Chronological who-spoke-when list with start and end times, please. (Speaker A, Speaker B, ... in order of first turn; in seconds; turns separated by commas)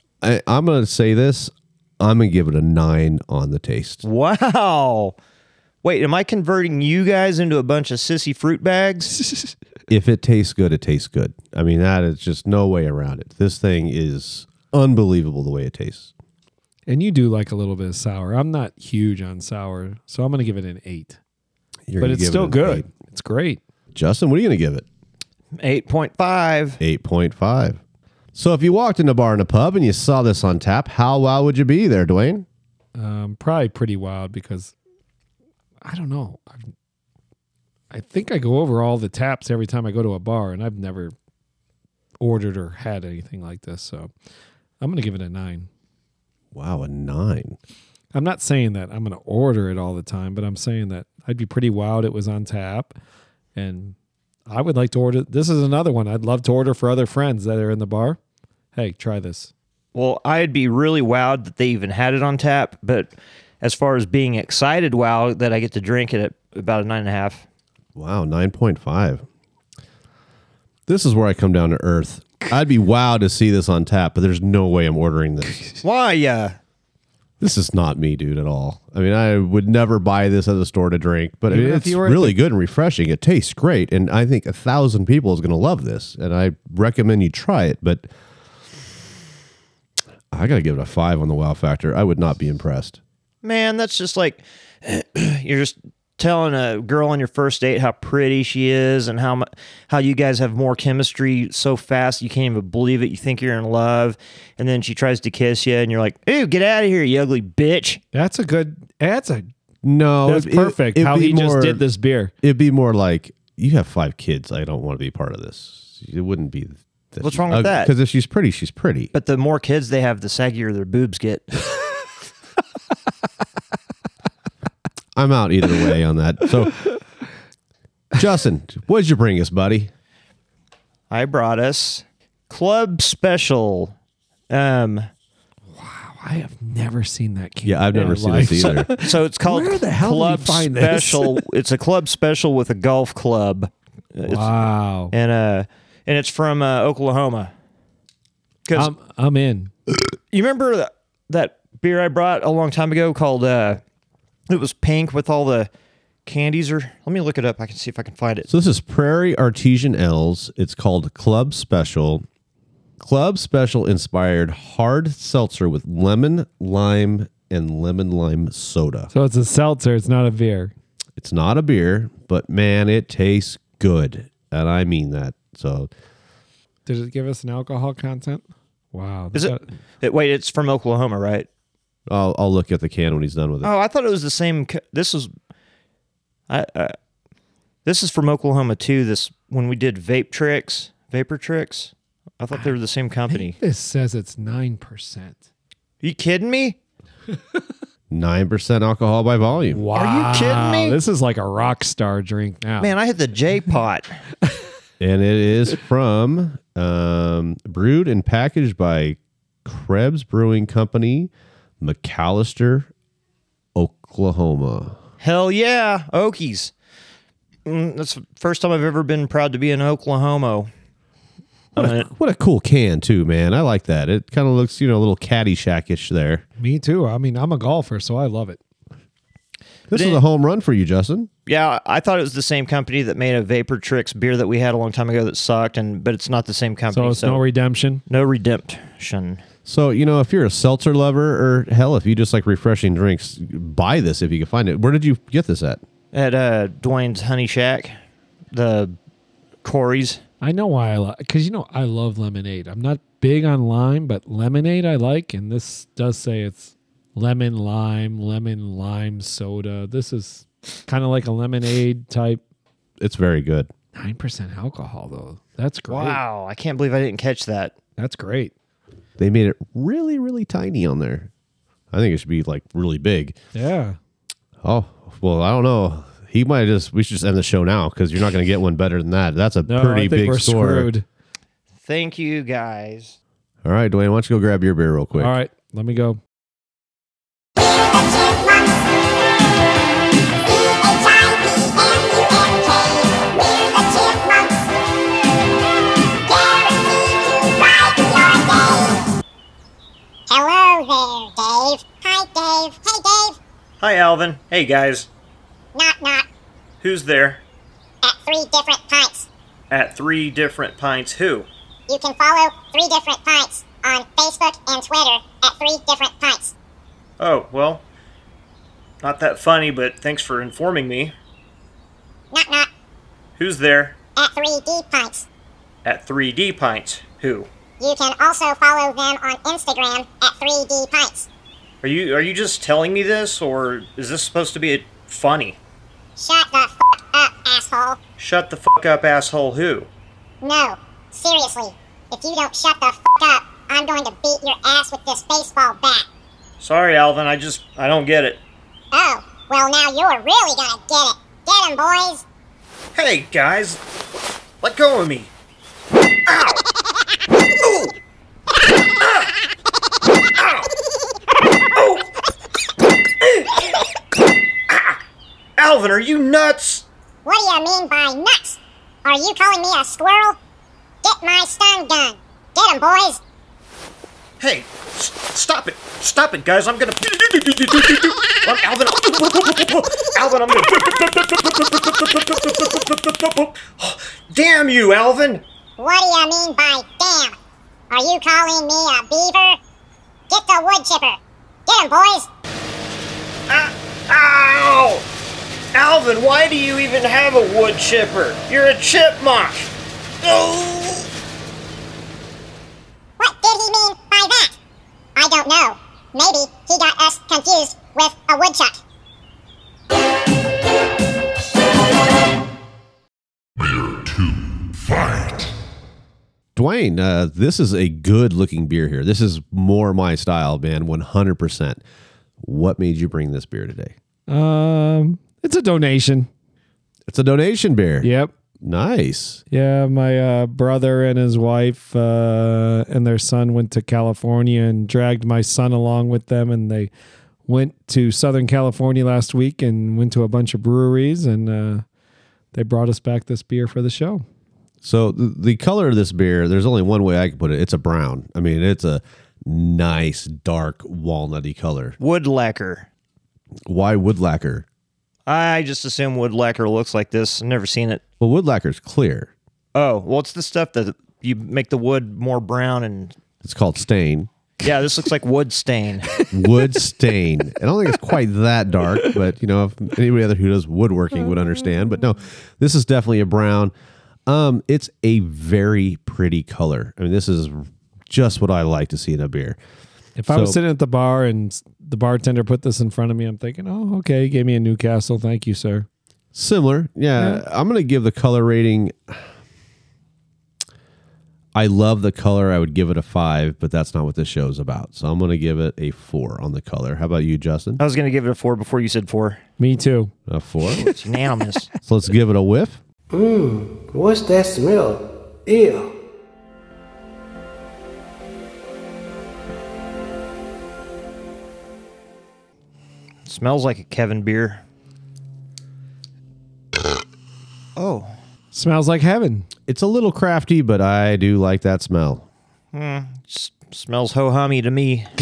Speaker A: 0.2-4.0, Speaker B: 4.0-5.2, Speaker B: 5.8-9.1, Speaker A: 9.9-16.1, Speaker C: 16.9-21.2, Speaker A: 21.9-22.9, Speaker C: 22.0-23.6, Speaker A: 23.9-24.9, Speaker B: 25.6-26.8, Speaker A: 26.8-27.8, Speaker A: 28.3-32.5, Speaker C: 33.0-34.7, Speaker C: 35.8-36.6, Speaker C: 37.9-41.1, Speaker C: 42.2-44.1, Speaker C: 44.8-45.7, Speaker A: 46.5-47.6, Speaker C: 48.1-53.0, Speaker C: 53.5-53.9, Speaker C: 54.5-58.2, Speaker C: 58.7-59.5, Speaker B: 59.9-67.4, Speaker A: 67.9-69.2, Speaker A: 70.9-75.7, Speaker B: 75.8-76.6, Speaker A: 77.4-88.1, Speaker C: 81.5-82.4, Speaker A: 90.3-93.0, Speaker B: 93.4-108.0, Speaker C: 108.1-109.5, Speaker A: 109.8-111.8, Speaker C: 110.2-112.3, Speaker A: 112.4-119.1, Speaker B: 117.2-117.9, Speaker B: 119.1-121.5, Speaker A: 125.1-126.8, Speaker A: 128.1-129.9, Speaker B: 131.1-133.9, Speaker B: 134.5-135.1, Speaker C: 135.7-141.4, Speaker A: 137.6-138.9, Speaker B: 139.0-144.5, Speaker C: 144.2-145.1, Speaker B: 145.1-147.5, Speaker B: 148.7-148.9, Speaker C: 148.7-149.7, Speaker B: 150.3-153.8, Speaker B: 154.5-155.7, Speaker B: 156.2-158.5, Speaker A: 158.5-162.2, Speaker A: 163.0-169.1, Speaker C: 169.1-170.7, Speaker A: 171.2-175.9, Speaker C: 176.8-179.7, Speaker B: 179.3-181.5, Speaker A: 182.1-183.7, Speaker B: 183.6-185.3, Speaker B: 186.5-186.9, Speaker B: 187.8-193.6, Speaker C: 193.3-195.4, Speaker B: 196.0-196.8, Speaker A: 198.1-199.8, Speaker C: 199.7-202.9, Speaker B: 199.9-201.0, Speaker B: 202.8-204.1, Speaker A: 205.0-212.9, Speaker A: 213.8-215.0, Speaker B: 215.2-216.7, Speaker B: 217.7-220.7, Speaker B: 221.7-222.1, Speaker A: 221.8-226.4, Speaker C: 226.6-228.6, Speaker A: 229.9-231.3, Speaker B: 229.9-230.2, Speaker B: 231.4-237.4, Speaker C: 236.9-238.0, Speaker B: 238.1-239.4, Speaker A: 239.6-245.8, Speaker B: 246.1-247.9, Speaker B: 248.5-248.9, Speaker B: 249.6-250.2, Speaker C: 250.4-262.4, Speaker A: 263.0-263.7, Speaker C: 263.9-266.2, Speaker B: 265.9-267.8, Speaker C: 268.0-268.5, Speaker A: 269.2-271.3, Speaker A: 271.9-273.4, Speaker C: 273.5-274.0, Speaker A: 274.6-280.9, Speaker C: 279.7-281.1, Speaker B: 281.8-283.2, Speaker A: 283.6-285.3, Speaker C: 285.2-286.2, Speaker D: 287.6-288.7, Speaker D: 290.5-294.5, Speaker D: 296.2-299.0, Speaker D: 300.3-303.4, Speaker B: 303.8-305.1, Speaker D: 305.7-306.2, Speaker B: 306.8-307.4, Speaker D: 308.0-309.3, Speaker B: 309.7-311.5, Speaker D: 311.9-316.5, Speaker B: 317.2-317.8, Speaker B: 319.0-321.1, Speaker D: 322.3-322.7, Speaker B: 323.4-323.9, Speaker D: 324.1-325.3, Speaker B: 325.8-327.5, Speaker D: 327.8-331.3, Speaker B: 331.8-335.6, Speaker D: 336.2-338.0, Speaker B: 338.2-339.9, Speaker D: 340.4-346.1, Speaker B: 346.6-348.4, Speaker D: 348.9-352.2, Speaker B: 352.9-353.8, Speaker B: 354.6-355.3, Speaker B: 356.3-356.6, Speaker B: 357.6-357.9, Speaker B: 360.4-360.7, Speaker B: 361.8-362.1, Speaker B: 363.2-363.8, Speaker B: 364.7-365.0, Speaker B: 365.6-366.9, Speaker D: 367.2-370.4, Speaker D: 371.0-373.2, Speaker B: 374.4-385.4, Speaker D: 385.8-387.4, Speaker D: 387.9-389.6, Speaker D: 390.3-392.3, Speaker B: 393.5-395.1, Speaker B: 395.7-399.7, Speaker B: 400.2-401.1, Speaker D: 403.2-404.5, Speaker D: 405.1-408.8, Speaker E: 413.6-415.5, Speaker A: 416.6-421.8, Speaker A: 422.4-423.9, Speaker C: 424.3-426.3, Speaker A: 427.1-428.1, Speaker C: 428.0-428.3, Speaker A: 428.6-429.4, Speaker C: 429.5-436.9, Speaker C: 437.4-441.8, Speaker C: 442.5-444.2, Speaker A: 444.8-452.0, Speaker B: 452.0-452.9, Speaker A: 453.6-454.6, Speaker B: 455.3-458.0, Speaker A: 458.2-459.3, Speaker B: 459.7-463.2, Speaker A: 463.4-464.3, Speaker B: 464.6-466.1, Speaker A: 466.3-473.7, Speaker C: 468.9-469.2, Speaker A: 474.2-479.6, Speaker C: 480.2-485.9, Speaker A: 480.3-480.6, Speaker A: 486.3-489.2, Speaker C: 487.2-487.4, Speaker A: 491.5-497.8, Speaker B: 497.8-499.4, Speaker C: 499.6-500.1, Speaker A: 500.3-500.9, Speaker B: 500.9-501.7, Speaker A: 501.8-502.8, Speaker F: 503.1-505.9, Speaker B: 513.2-514.6, Speaker B: 517.8-518.1, Speaker C: 518.5-519.5, Speaker A: 519.7-522.2, Speaker B: 522.7-525.1